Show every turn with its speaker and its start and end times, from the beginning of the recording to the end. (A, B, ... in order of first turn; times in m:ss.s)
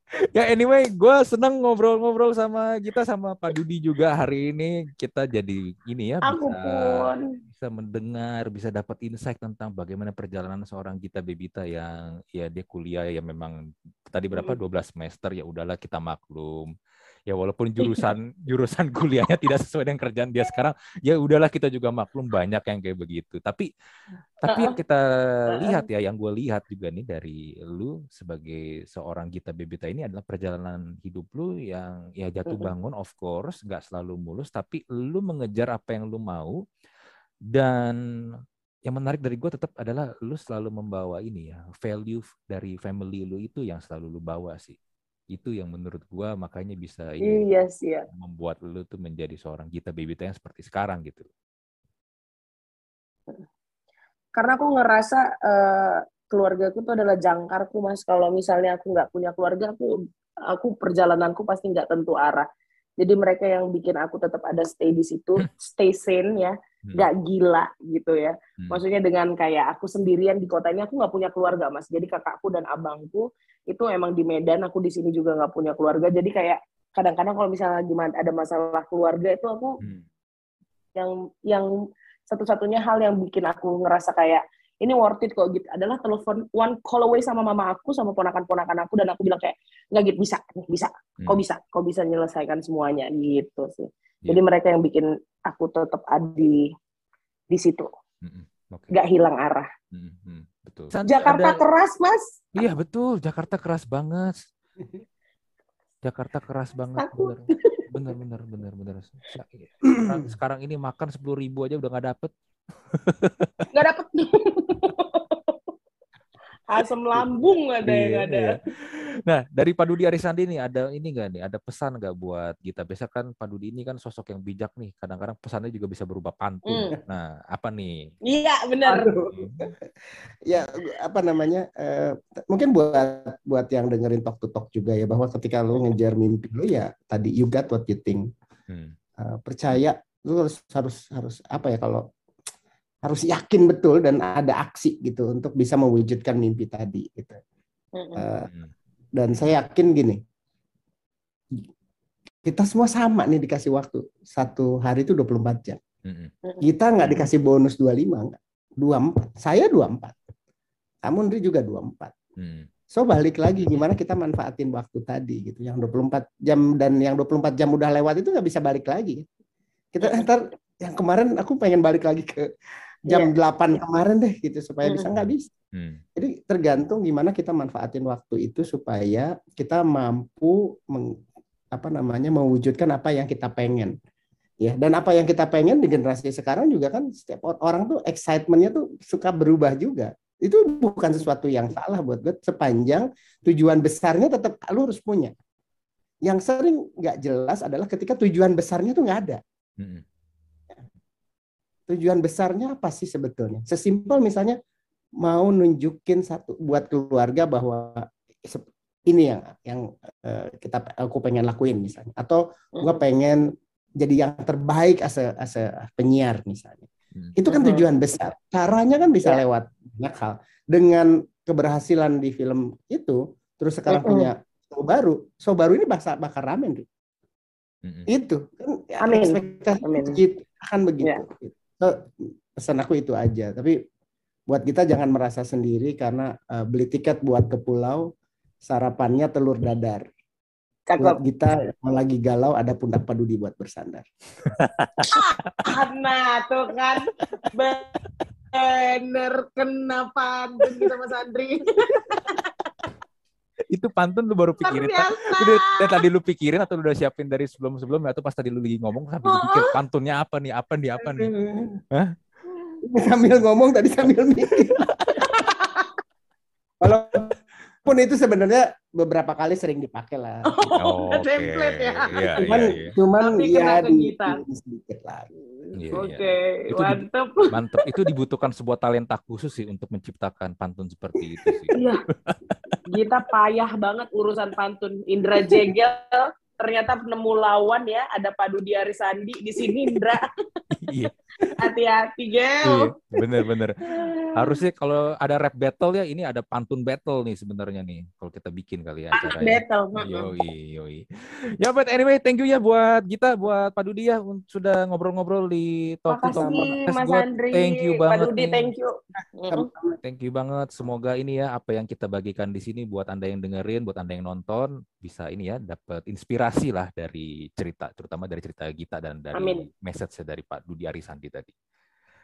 0:00.3-0:16.7 A
0:06.2-0:07.4 B
0:17.3-0:23.7 A
0:17.8-0:18.1 B
0:24.4-0:36.6 A
0:24.5-0:24.8 B
0:25.5-0:25.9 B
0:37.5-0:38.0 A
0:38.9-0:44.8 A
0:45.3-0:47.4 A
0:47.2-0:48.0 B
0:48.1-0:51.3 A
0:54.4-1:00.0 B
1:00.5-1:02.5 B
1:03.0-1:19.8 B
1:21.0-1:21.7 B
1:22.3-1:36.7 B
1:37.5-1:37.9 B
1:38.2-1:39.0 A
1:38.9-1:39.7 B
1:39.9-1:41.6 A
1:41.1-1:42.7 B
1:42.6-1:44.5 A
1:46.0-1:52.3 A
1:47.0-1:47.9 B
1:50.0-1:50.2 C
1:52.9-1:53.7 A
1:53.7-1:55.6 B
1:56.7-1:58.6 B
1:57.2-2:08.0 A
2:06.7-2:07.0 B
2:08.3-2:09.1 B
2:08.9-2:09.7 C
2:09.3-2:09.6 A
2:10.4-2:18.2 C
2:18.7-2:19.0 A
2:19.2-2:22.0 C
2:23.0-2:27.4 C
2:28.0-2:28.2 B
2:28.2-2:28.5 C
2:28.4-2:28.7 A
2:29.2-2:30.2 C
2:32.4-2:35.8 C
2:36.0-2:36.3 A
2:36.4-2:37.1 B
2:36.6-2:40.2 C
2:41.0-2:42.2 C
2:42.4-2:42.7 A
2:42.9-2:49.2 C
2:49.9-2:52.5 C
2:50.0-2:50.3 B
2:53.1-2:55.5 C
2:54.8-2:55.1 B
2:55.2-2:56.0 A
2:56.2-3:01.2 C
3:01.7-3:03.9 C
3:04.6-3:15.3 C
3:16.3-3:19.4 C
3:19.8-3:20.0 A
3:21.9-3:24.6 C
3:25.2-3:33.4 C
3:32.8-3:33.0 B
3:34.0-3:46.9 C
3:37.5-3:37.9 B
3:43.9-3:44.3 B
3:48.1-3:52.0 C
3:49.0-3:50.2 B
3:52.6-3:53.8 C
3:54.5-3:58.0 C
3:58.6-4:00.1 C
4:00.9-4:01.2 B
4:01.0-4:04.1 C
4:04.5-4:05.7 A
4:05.0-4:07.9 B
4:08.5-4:12.4 B
4:13.7-4:21.3 A
4:14.6-4:16.0 B
4:19.2-4:19.7 B
4:21.2-4:21.8 C
4:22.8-4:24.8 C
4:24.7-4:25.2 A
4:25.2-4:25.9 B
4:26.8-4:30.5 C
4:30.5-4:32.7 B
4:30.8-4:33.0 A
4:32.4-4:35.3 C
4:33.2-4:34.4 B
4:35.8-4:42.8 A
4:35.9-4:37.5 B
4:41.7-4:42.0 B
4:42.9-4:50.3 B
4:50.8-4:51.6 A
4:51.6-4:53.0 B
4:52.6-5:01.0 A
4:53.8-4:54.6 B
4:59.1-5:00.3 B
5:01.6-5:08.7 A
5:06.1-5:09.7 B
5:06.3-5:06.7 C
5:09.5-5:10.0 C
5:10.0-5:21.5 A
5:19.4-5:19.7 B